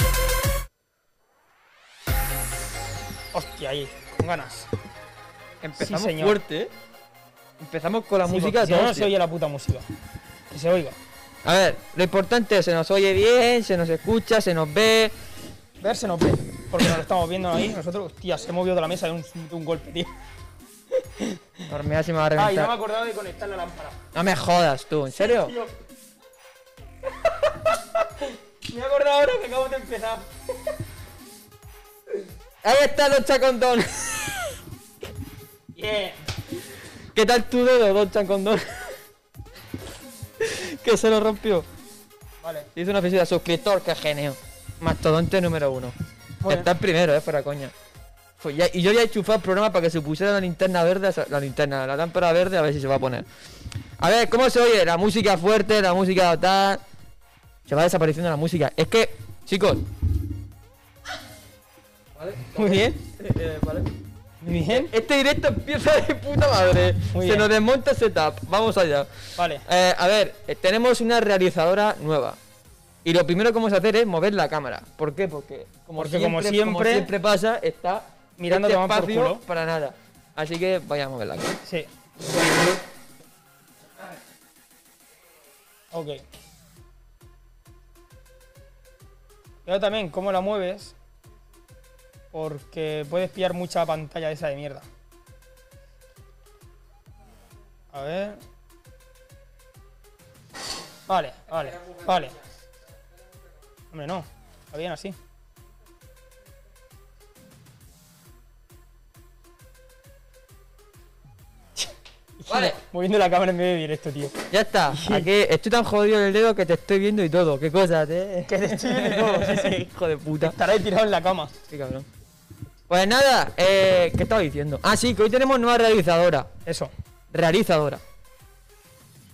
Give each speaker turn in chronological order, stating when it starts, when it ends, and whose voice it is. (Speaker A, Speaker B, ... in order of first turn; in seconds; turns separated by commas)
Speaker A: 3.3-4.7, Speaker B: 5.6-6.7, Speaker A: 5.8-6.4, Speaker B: 7.6-9.1, Speaker A: 8.2-9.8, Speaker A: 10.5-11.0, Speaker B: 11.4-15.1, Speaker A: 15.8-20.1, Speaker B: 21.7-22.7, Speaker A: 22.4-24.0, Speaker B: 24.1-25.6, Speaker A: 25.2-25.7, Speaker A: 28.6-30.3, Speaker B: 32.6-34.5, Speaker A: 35.8-36.2, Speaker B: 37.1-39.0, Speaker B: 40.4-41.7, Speaker A: 42.4-42.7, Speaker B: 42.8-45.9, Speaker A: 46.4-46.7, Speaker B: 46.5-47.7, Speaker B: 48.4-53.3, Speaker B: 54.0-56.8, Speaker B: 57.7-59.8, Speaker B: 62.2-63.9, Speaker A: 62.5-63.0, Speaker A: 64.4-64.9, Speaker B: 64.7-72.4, Speaker A: 67.1-67.5, Speaker A: 69.4-69.7, Speaker B: 73.0-81.6, Speaker A: 76.0-77.1, Speaker A: 78.4-79.4, Speaker A: 81.6-81.9, Speaker A: 85.9-86.2, Speaker A: 89.7-91.0, Speaker A: 92.3-94.9, Speaker A: 97.9-98.4, Speaker A: 101.1-102.4, Speaker A: 103.9-105.2, Speaker A: 112.4-115.3, Speaker B: 112.5-112.8, Speaker B: 114.5-120.6, Speaker A: 118.4-119.8, Speaker A: 120.4-121.5, Speaker B: 121.7-122.1, Speaker B: 122.9-126.5, Speaker A: 126.7-126.9, Speaker B: 127.3-128.0